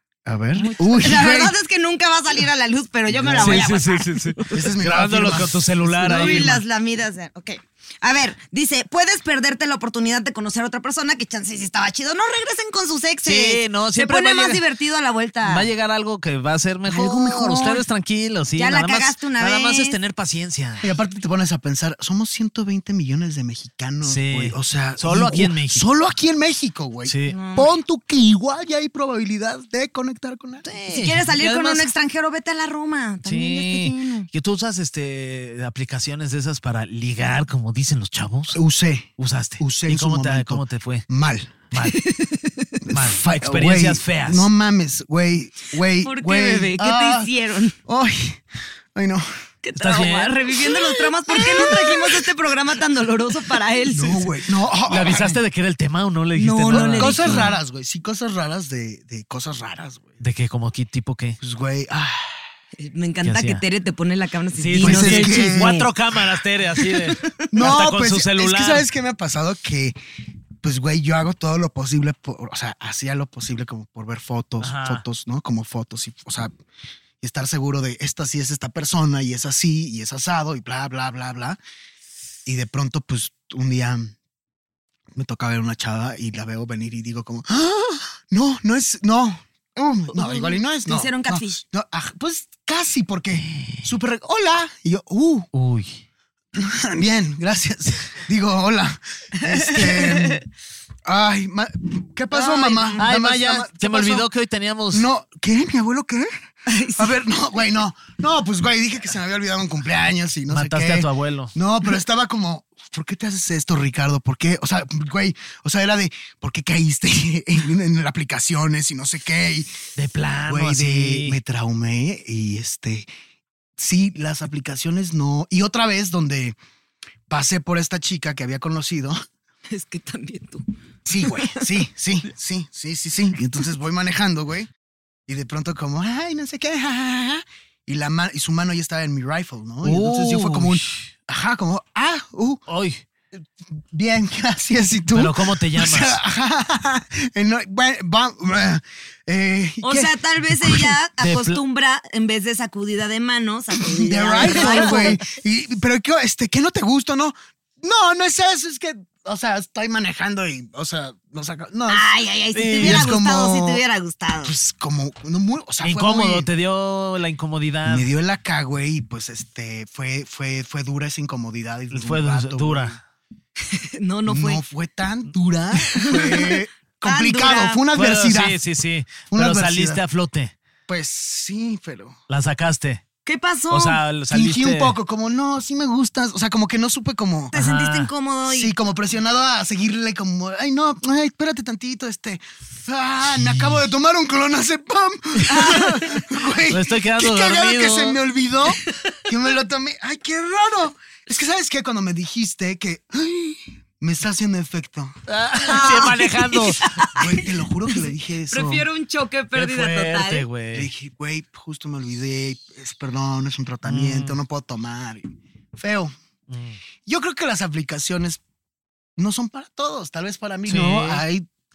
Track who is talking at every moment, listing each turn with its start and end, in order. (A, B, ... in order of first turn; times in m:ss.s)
0:00.3-0:01.6 A
0:00.6-0:04.6 B
0:03.1-0:03.7 A
0:03.4-0:06.6 C
0:04.5-0:06.6 A
0:06.0-0:15.7 B
0:13.2-0:14.6 C
0:15.4-0:20.9 C
0:16.9-0:17.8 B
0:18.6-0:20.0 B
0:20.8-0:30.7 A
0:24.0-0:25.8 C
0:27.1-0:27.4 C
0:27.3-0:27.7 B
0:30.7-0:31.9 C
0:30.9-0:34.3 B
0:33.2-0:38.6 C
0:38.5-0:41.6 A
0:39.2-0:41.1 C
0:41.7-0:42.0 C
0:41.8-0:42.8 B
0:42.9-0:47.3 A
0:42.9-0:44.5 C
0:46.0-0:47.8 B
0:47.9-0:48.4 A
0:49.0-0:49.3 A
0:49.6-0:54.3 B
0:49.8-0:50.4 C
0:50.7-0:52.2 A
0:53.9-0:55.4 A
0:54.9-0:57.6 C
0:56.4-0:57.6 B
0:56.7-1:00.2 A
1:00.2-1:01.4 C
1:01.4-1:02.4 A
1:02.8-1:05.9 B
1:03.2-1:03.6 C
1:04.6-1:08.9 C
1:04.8-1:05.8 A
1:06.8-1:07.5 B
1:07.5-1:10.0 A
1:10.6-1:16.5 A
1:14.6-1:15.0 C
1:17.2-1:21.6 A
1:22.5-1:24.1 A
1:25.1-1:35.5 A
1:30.1-1:31.6 B
1:33.4-1:33.9 C
1:35.5-1:36.0 C
1:36.5-1:40.4 A
1:39.4-1:40.4 B
1:41.0-1:44.3 A
1:42.3-1:43.1 B
1:43.0-1:45.1 C
1:44.9-1:46.3 A
1:46.7-1:47.2 B
1:47.0-1:59.7 A
1:50.5-1:51.5 C
2:00.0-2:01.4 C
2:00.5-2:03.1 A
2:03.8-2:06.6 A
2:07.3-2:09.2 A
2:09.7-2:10.7 B
2:11.1-2:14.7 A
2:11.2-2:11.7 B
2:15.3-2:22.6 A
2:19.8-2:21.1 C
2:22.7-2:23.0 C
2:23.8-2:30.2 A
2:25.1-2:26.2 C
2:29.8-2:35.2 B
2:31.2-2:31.6 C
2:33.8-2:42.1 A
2:34.4-2:35.2 C
2:41.9-2:44.6 B
2:42.5-2:43.1 C
2:42.8-2:43.8 A
2:44.4-2:46.5 A
2:45.8-2:48.1 C
2:47.9-2:53.0 A
2:51.9-2:53.0 C
2:53.7-2:54.6 B
2:54.3-2:58.6 A
2:55.9-2:57.8 B
2:57.9-3:00.5 C
2:59.3-3:00.0 A
3:00.9-3:02.2 A
3:02.3-3:03.0 C
3:03.2-3:04.0 B
3:03.7-3:05.0 C
3:04.3-3:07.5 A
3:07.5-3:08.7 B
3:07.6-3:08.1 C
3:08.5-3:25.2 A
3:13.4-3:13.8 C
3:15.4-3:18.2 C
3:15.5-3:16.2 B
3:25.3-3:27.1 C
3:25.7-3:28.0 B
3:27.1-3:28.9 A
3:28.5-3:30.5 B
3:29.5-3:30.9 C
3:30.7-3:36.2 A
3:33.8-3:34.4 C
3:36.5-3:36.8 C
3:37.1-3:38.4 A
3:39.2-3:41.5 A
3:40.7-3:41.2 C